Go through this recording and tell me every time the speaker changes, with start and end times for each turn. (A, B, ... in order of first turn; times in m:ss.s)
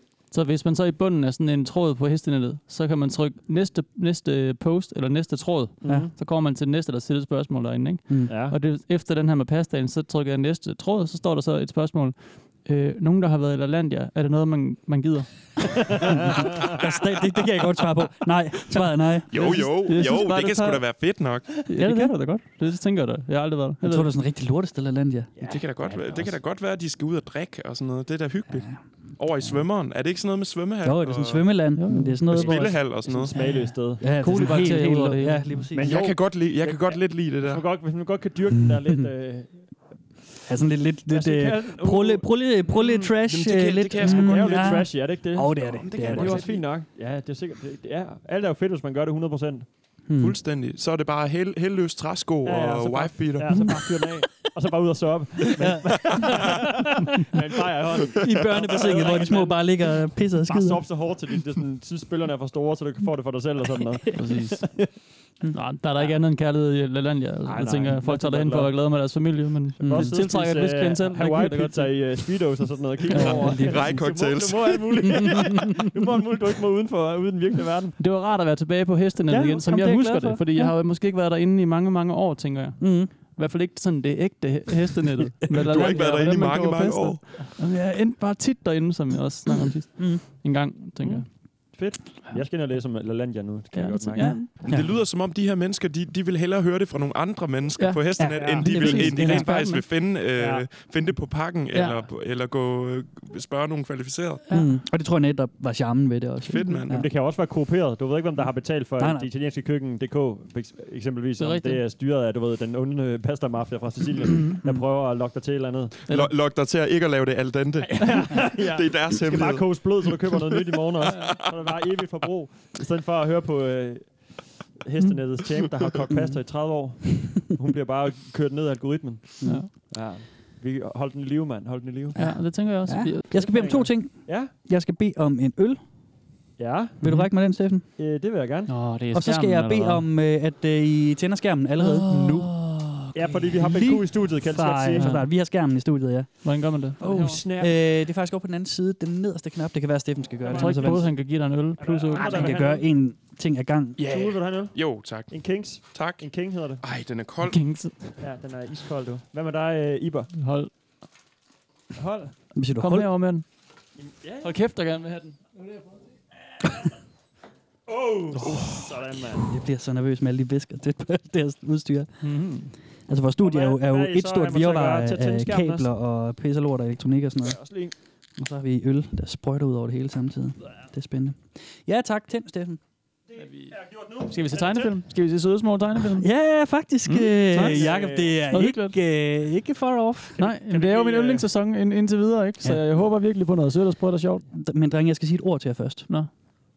0:00.3-0:15.5 A
0:05.8-0:06.1 B
0:05.8-0:06.1 C
0:08.1-0:08.4 C
0:08.3-0:08.6 B
0:15.8-0:16.8 B
0:16.1-0:19.8 C
0:19.3-0:21.5 D
0:19.4-0:20.9 A
0:21.6-0:24.1 A
0:21.8-0:22.2 C
0:23.8-0:25.3 C
0:25.4-0:26.4 B
0:25.4-0:31.6 D
0:28.5-0:28.8 C
0:29.3-0:29.6 C
0:30.8-0:35.9 C
0:31.8-0:32.2 A
0:32.3-0:33.5 D
0:32.4-0:34.7 B
0:34.1-0:35.7 A
0:35.7-0:39.7 B
0:35.8-0:37.6 D
0:38.5-0:39.1 C
0:40.4-0:46.5 C
0:41.1-0:42.9 B
0:43.2-0:44.9 D
0:44.0-0:49.7 B
0:45.6-0:46.6 D
0:50.1-0:50.4 C
0:50.2-0:53.8 D
0:52.4-1:04.9 B
0:55.6-0:56.8 C
0:58.2-1:00.9 C
1:04.2-1:12.0 A
1:07.4-1:08.7 B
1:09.8-1:10.2 C
1:09.8-1:18.0 B
1:13.1-1:14.2 C
1:13.1-1:15.3 D
1:15.1-1:15.7 C
1:18.0-1:31.5 A
1:19.3-1:20.8 C
1:22.8-1:23.1 C
1:25.5-1:26.0 C
1:25.7-1:27.2 D
1:30.0-1:30.2 C
1:31.7-1:34.4 B
1:33.7-1:34.5 A
1:34.2-1:34.9 C
1:34.6-1:44.4 D
1:37.8-1:39.8 A
1:38.2-1:39.8 C
1:38.4-1:38.7 B
1:40.4-1:40.7 B
1:41.7-1:42.1 A
1:44.5-1:44.8 A
1:44.5-1:47.1 C
1:46.5-1:47.0 D
1:46.9-1:56.0 B
1:49.0-1:49.3 C
1:51.4-1:51.8 A
1:54.4-1:54.8 C
1:56.1-1:56.3 A
1:56.1-2:00.5 D
1:57.9-2:12.2 B
2:09.4-2:09.7 C
2:09.4-2:09.7 A
2:12.2-2:15.8 C
2:12.2-2:13.6 A
2:13.3-2:14.5 B
2:16.6-2:17.0 B
2:17.0-2:17.8 C
2:17.0-2:17.3 A
2:18.0-2:18.7 B
2:18.7-2:20.0 A
2:19.1-2:31.1 C
2:21.8-2:23.2 A
2:23.2-2:25.1 B
2:25.0-2:25.3 A
2:26.4-2:27.4 A
2:27.0-2:27.8 B
2:30.4-2:31.3 B
2:30.5-2:32.6 A
2:31.8-2:32.9 B
2:32.1-2:34.0 C
2:34.0-2:37.7 D
2:34.0-2:36.8 B
2:37.4-2:38.2 A
2:38.2-2:40.3 B
2:40.3-2:40.7 A
2:42.0-2:42.4 B
2:42.5-2:43.1 C
2:42.8-2:43.5 A
2:44.0-2:44.5 B
2:44.4-2:45.4 A
2:47.9-2:49.5 B
2:48.4-2:48.9 D
2:49.5-2:52.3 C
2:52.2-2:52.7 A
2:53.1-2:57.6 C
2:53.4-2:55.9 B
2:57.4-2:58.0 B
2:58.4-3:02.8 C
3:03.3-3:05.0 B
3:03.4-3:03.7 A
3:04.2-3:06.3 A
3:06.2-3:10.4 C
3:07.0-3:07.9 A
3:07.6-3:08.4 B
3:08.5-3:09.0 A
3:10.4-3:11.5 B
3:10.4-3:14.4 A
3:14.5-3:16.1 C